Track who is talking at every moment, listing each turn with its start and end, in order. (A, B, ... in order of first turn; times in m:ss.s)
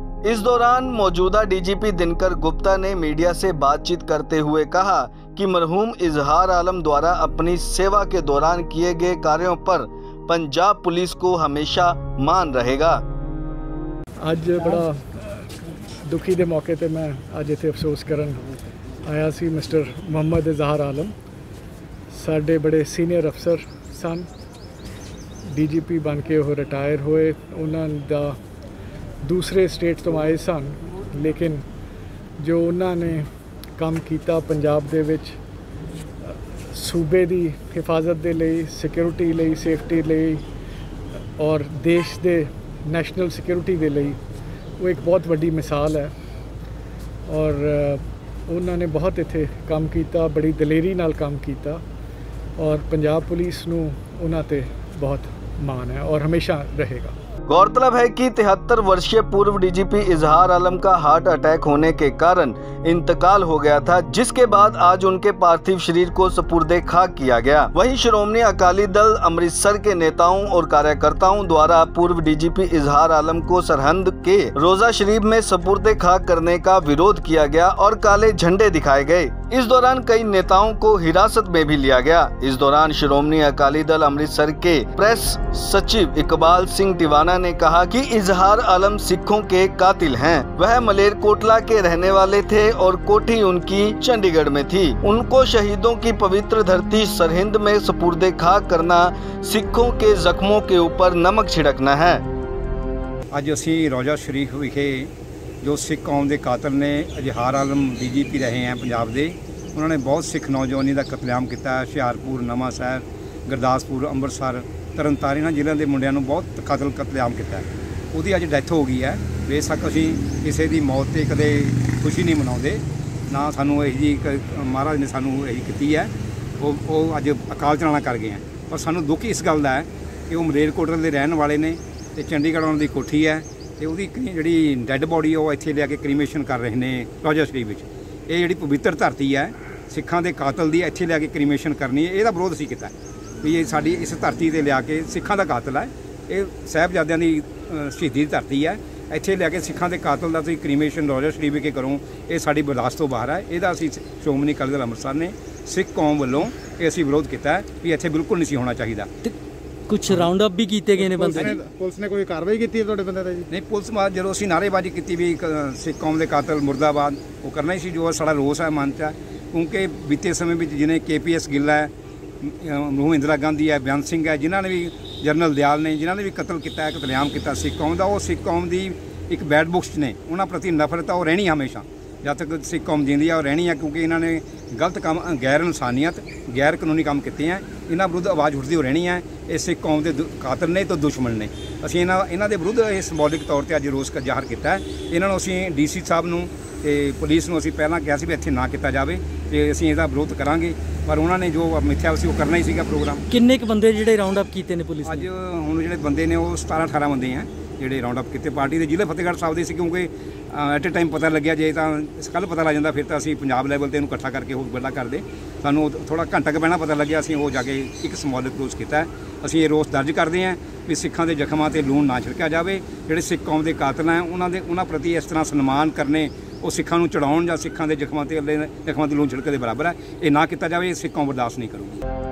0:00.2-0:13.0 A
0:14.2-0:15.5 B
0:16.0-0:18.4 B
0:19.0-0:21.1 B
0:22.1-0:24.3 B
0:25.4-0:28.4 B
0:29.2-0:31.6 B
0:32.4-0:35.4 B
0:36.7-0:40.4 B
0:41.4-0:44.2 B
0:44.8-0:46.1 B
0:47.3-0:51.8 B
0:52.6-0:57.1 B
0:57.5-1:42.2 A
1:43.3-2:39.1 C
2:39.9-2:41.6 D
2:41.0-2:43.4 E
2:43.5-3:23.2 C
3:23.3-3:25.3 D
3:25.0-3:52.0 C